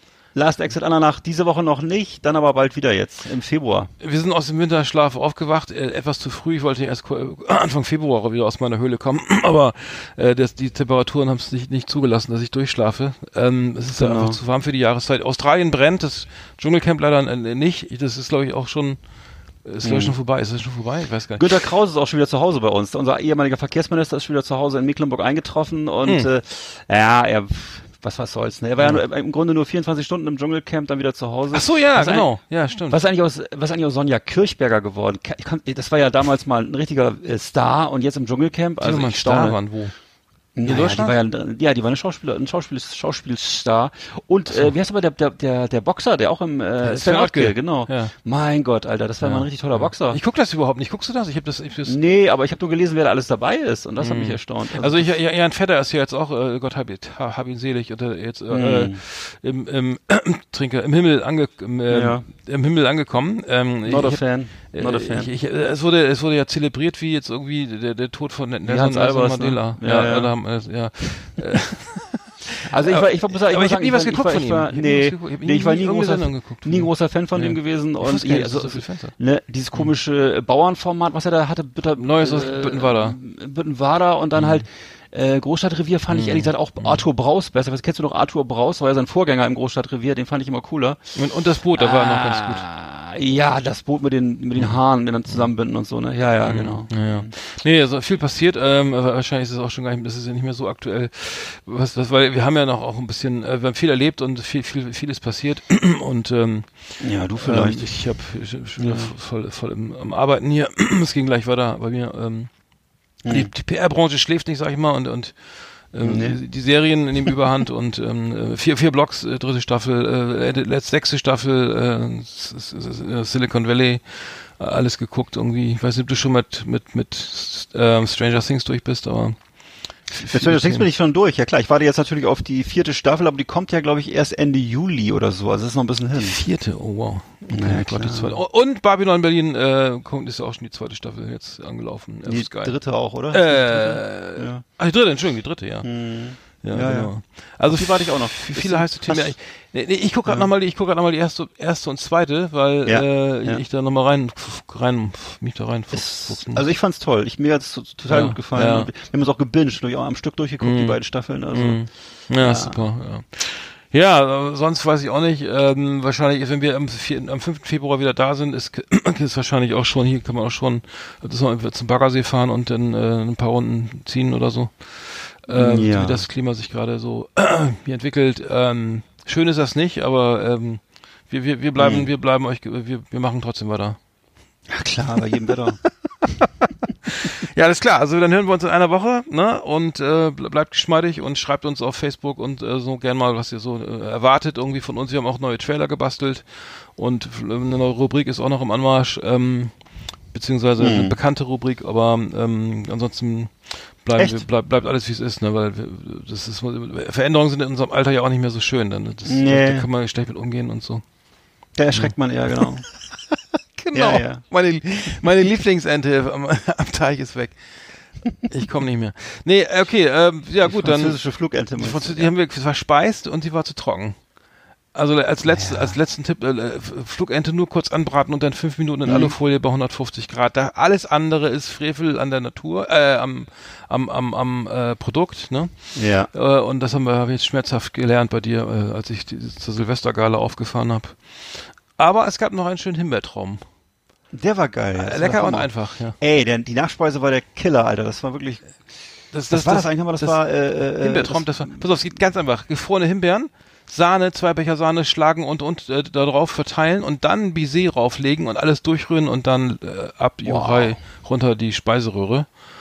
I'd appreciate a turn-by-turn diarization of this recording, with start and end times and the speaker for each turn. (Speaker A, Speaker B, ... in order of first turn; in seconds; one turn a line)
Speaker A: 0.3-3.9
Speaker B: 4.0-19.0
Speaker A: 14.0-14.4
Speaker B: 19.6-21.7
Speaker A: 19.8-20.2
Speaker A: 21.4-32.3
Speaker B: 31.5-33.0
Speaker A: 32.9-39.6
Speaker B: 38.8-39.9
Speaker A: 40.6-50.2
Speaker B: 40.7-41.2
Speaker B: 46.8-48.1
Speaker B: 49.2-52.0
Speaker A: 51.9-55.1
Speaker B: 54.0-79.1
Speaker A: 58.5-59.0
Speaker A: 61.9-62.3
Speaker A: 63.9-65.3
Speaker A: 68.7-70.3
Speaker A: 72.7-91.0
Speaker B: 82.0-83.2
Speaker B: 84.4-84.6
Speaker B: 86.1-87.0
Speaker B: 91.2-92.7
Speaker A: 91.8-97.3
Speaker B: 96.4-112.5
Speaker A: 107.0-107.9
Speaker A: 108.8-109.1
Speaker A: 113.2-113.5
Speaker B: 113.3-129.4
Speaker A: 116.0-116.4
Speaker B: 130.1-130.9
Speaker A: 130.3-136.4
Speaker B: 136.2-142.7
Speaker A: 137.5-138.4
Speaker A: 142.3-144.6
Speaker B: 143.3-145.9
Speaker A: 145.8-147.1
Speaker B: 146.6-156.7
Speaker A: 147.7-149.3
Speaker A: 152.8-153.6
Speaker A: 155.9-161.8
Speaker B: 158.1-158.9
Speaker B: 160.6-161.0
Speaker B: 161.5-184.0
Speaker A: 162.4-162.8
Speaker A: 175.5-176.2
Speaker A: 181.8-182.1
Speaker A: 184.7-185.8
Speaker B: 186.4-199.7
Speaker B: 200.3-211.0
Speaker A: 200.8-201.2
Speaker A: 204.2-204.5
Speaker A: 209.3-209.9
Speaker A: 211.8-212.9
Speaker B: 211.9-212.7
Speaker B: 213.8-217.6
Speaker A: 213.9-214.4
Speaker B: 218.4-221.2
Speaker A: 220.6-222.3
Speaker B: 221.8-224.2
Speaker B: 224.9-243.6
Speaker A: 225.4-226.0
Speaker A: 229.1-229.3
Speaker A: 235.9-236.3
Speaker A: 244.3-248.6
Speaker B: 245.0-246.2
Speaker B: 249.3-262.5
Speaker A: 249.5-251.9
Speaker A: 260.4-261.0